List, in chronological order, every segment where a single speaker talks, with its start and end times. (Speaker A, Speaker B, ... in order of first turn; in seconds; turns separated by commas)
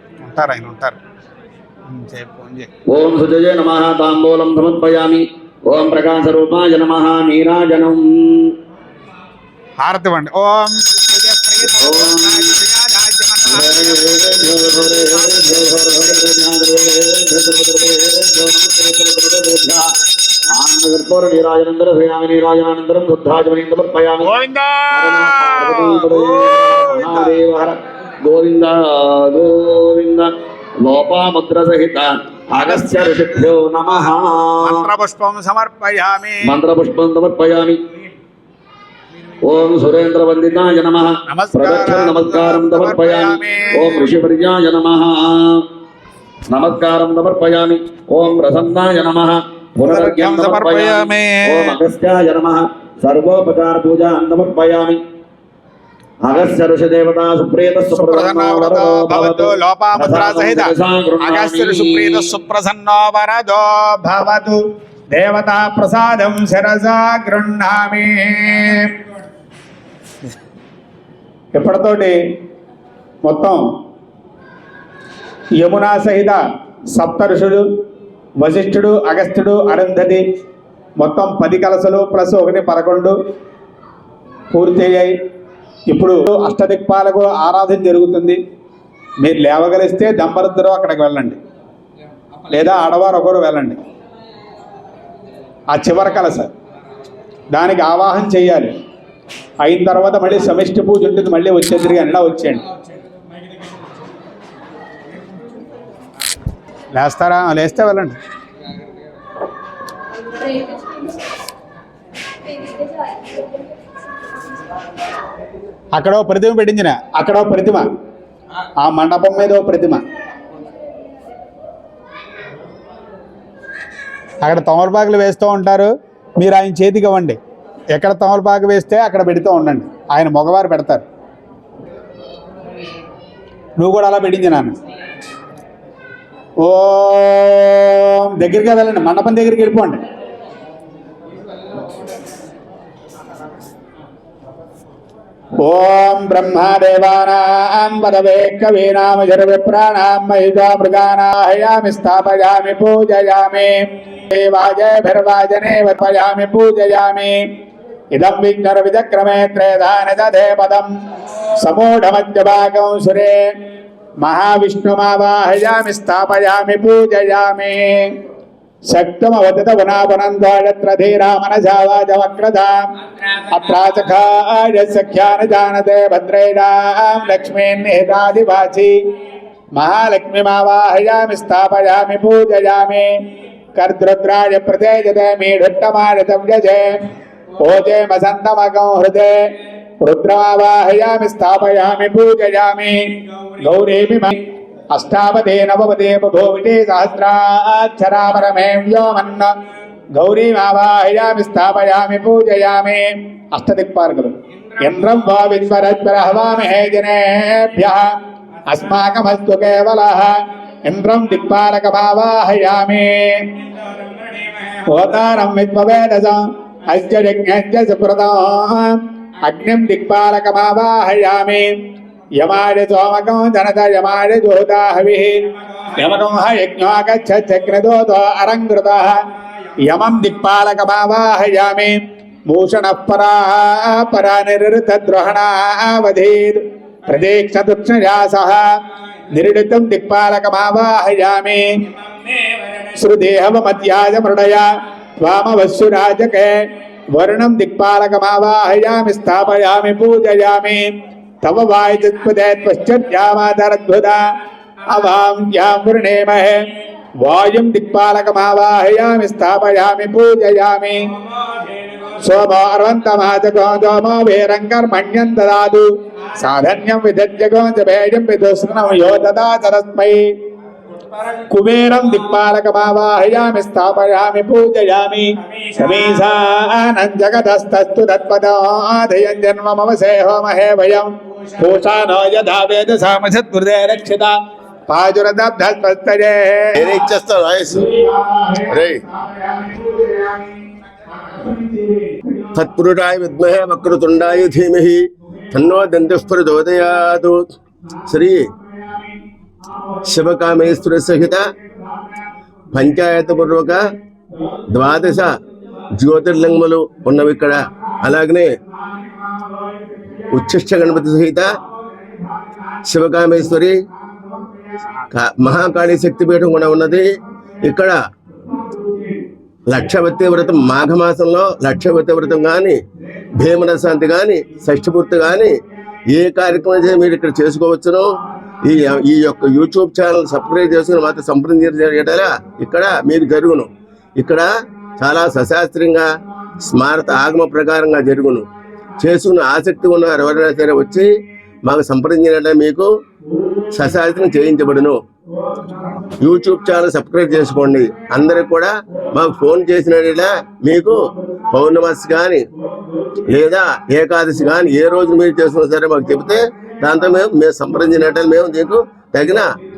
Speaker A: 0.2-1.0, Speaker A: 1.9-2.7, Speaker B: 2.9-8.5, Speaker A: 9.8-16.3, Speaker B: 11.7-12.5, Speaker B: 13.5-19.9, Speaker B: 20.5-24.4, Speaker A: 24.2-27.4, Speaker B: 24.9-34.9, Speaker A: 32.6-34.1, Speaker A: 34.6-36.6, Speaker B: 36.4-37.8, Speaker B: 39.4-45.7, Speaker A: 41.3-44.1, Speaker B: 46.5-55.0, Speaker A: 49.8-51.8, Speaker B: 56.2-62.3, Speaker A: 57.9-64.6, Speaker A: 65.1-69.0, Speaker A: 71.5-72.2, Speaker A: 73.3-73.6, Speaker A: 75.6-76.4, Speaker A: 77.0-77.6, Speaker A: 78.4-80.2, Speaker A: 81.0-83.2, Speaker A: 84.5-85.1, Speaker A: 85.9-88.4, Speaker A: 89.2-91.4, Speaker A: 92.5-93.8, Speaker A: 95.7-96.5, Speaker A: 97.5-98.7, Speaker A: 99.6-102.6, Speaker A: 106.9-108.2, Speaker A: 116.0-117.9, Speaker A: 118.8-120.0, Speaker A: 124.4-127.4, Speaker A: 127.9-131.0, Speaker A: 133.8-134.8, Speaker A: 136.6-140.0, Speaker A: 145.6-157.5, Speaker A: 158.1-160.9, Speaker A: 161.6-163.4, Speaker A: 164.2-168.2, Speaker A: 168.9-178.9, Speaker A: 179.8-183.1, Speaker A: 183.8-186.9, Speaker A: 187.6-199.5, Speaker A: 200.2-208.1, Speaker A: 208.7-210.3, Speaker A: 210.9-213.5, Speaker A: 214.8-221.7, Speaker A: 222.4-225.3, Speaker A: 225.9-229.2, Speaker A: 229.9-232.0, Speaker A: 232.5-238.6, Speaker A: 239.3-241.8, Speaker A: 242.8-244.7, Speaker A: 245.2-246.6, Speaker A: 247.2-250.9, Speaker A: 251.4-254.2, Speaker A: 254.9-256.6, Speaker A: 257.2-261.1, Speaker A: 262.2-270.2, Speaker A: 271.4-284.3, Speaker A: 284.9-287.1, Speaker C: 286.8-287.9, Speaker A: 287.7-290.6, Speaker C: 288.7-289.0, Speaker A: 291.2-292.4, Speaker C: 292.6-297.4, Speaker C: 298.1-298.5, Speaker A: 298.8-299.1, Speaker C: 300.1-301.5, Speaker C: 302.7-303.8, Speaker C: 304.7-305.4, Speaker C: 306.0-308.5, Speaker A: 309.2-310.2, Speaker C: 310.3-311.5, Speaker C: 312.9-313.8, Speaker C: 315.1-317.1, Speaker C: 317.6-318.0, Speaker A: 318.7-319.1, Speaker C: 319.7-322.8, Speaker C: 323.4-325.6, Speaker C: 326.1-328.1, Speaker C: 328.6-336.1, Speaker C: 336.6-338.5, Speaker C: 339.0-341.1, Speaker C: 341.6-342.9, Speaker C: 343.7-345.0, Speaker C: 346.2-351.0, Speaker C: 351.5-352.5, Speaker C: 353.3-359.5